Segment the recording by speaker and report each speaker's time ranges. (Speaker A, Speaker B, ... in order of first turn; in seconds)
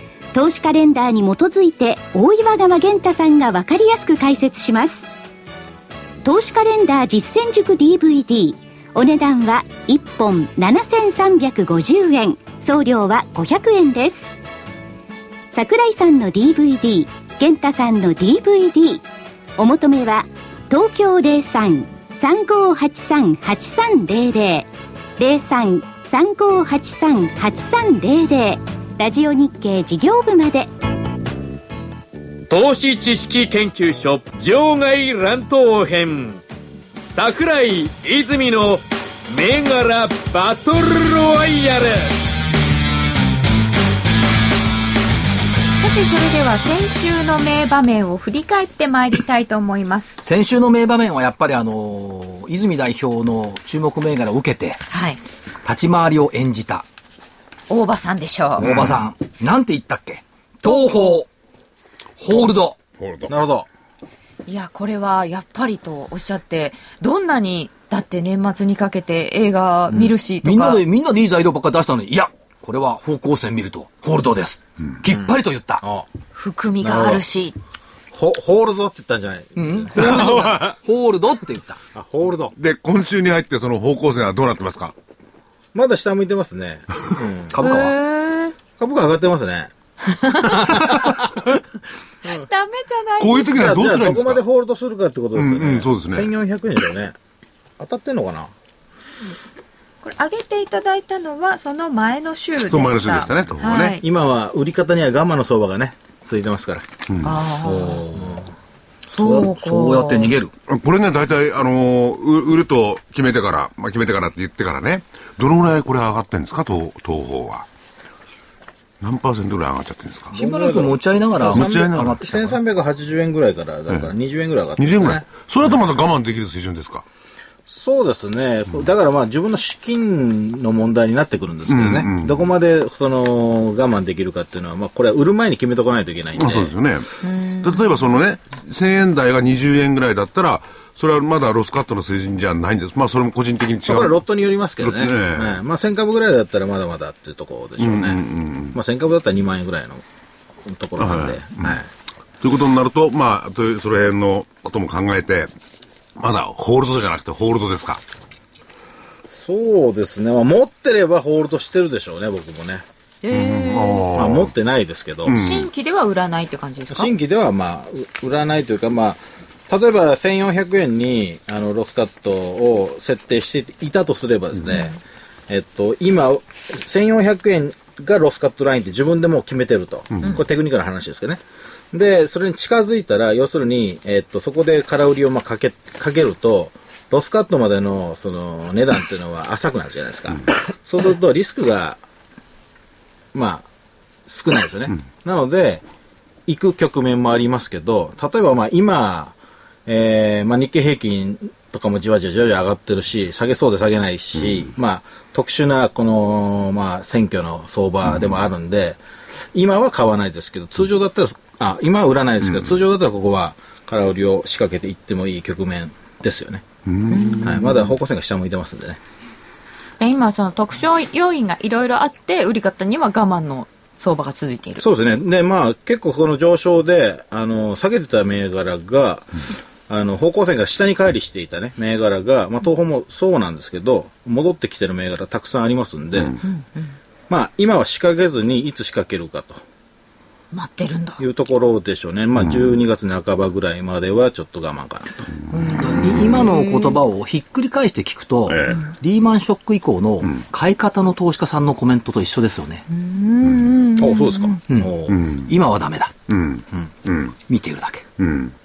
Speaker A: 0.3-5.0, 6.2-14.3, 15.5-19.0, 19.6-30.7
Speaker B: 32.5-36.4, 37.1-42.2
Speaker C: 45.8-50.2, 54.9-55.2, 57.7-58.7, 60.7-61.1, 64.5-70.8, 76.3-77.6, 87.6-88.5, 90.2-90.7, 92.2-93.8, 100.0-104.0, 107.2-108.3, 109.1-110.3, 137.2-137.7, 163.2-164.1, 165.3-167.1, 217.1-217.6, 220.0-224.8, 236.4-236.9, 240.5-241.2, 245.5-247.0, 252.9-254.6
Speaker D: 50.2-54.8, 55.6-56.9, 58.6-61.3, 62.2-62.8, 70.4-75.8, 79.6-81.8, 87.5-88.0, 109.1-110.5, 120.3-122.3, 245.8-252.8, 254.7-256.1, 257.5-258.1
Speaker E: 58.7-58.9, 63.0-63.3, 80.0-80.7, 82.6-84.9, 93.2-94.4, 95.3-96.3, 102.7-104.0, 107.1-107.3, 110.7-117.7, 119.0-120.4, 121.5-122.6, 124.8-127.0, 131.7-132.4, 136.4-144.2, 144.8-145.6, 147.8-148.8, 151.0-151.8, 152.4-155.5, 156.2-158.0, 163.3-164.5, 165.3-165.7, 216.9-217.5, 248.5-248.9, 255.1-255.5, 256.3-257.4, 258.2-258.6
Speaker F: 63.3-63.7, 75.8-76.1, 76.8-77.2, 78.1-80.6, 81.9-82.5, 85.7-87.6, 88.8-89.7, 90.3-91.6, 93.5-97.2, 97.8-98.5, 104.0-106.9, 107.6-108.5, 120.3-125.9, 127.7-136.7, 143.9-150.0, 150.7-151.9, 159.3-162.8, 164.1-165.4, 166.9-175.0, 175.5-192.0, 193.3-193.7, 194.3-195.8, 196.5-209.0, 209.5-216.7, 217.4-219.0, 224.8-236.4, 237.3-239.6, 241.2-245.3, 254.0-255.2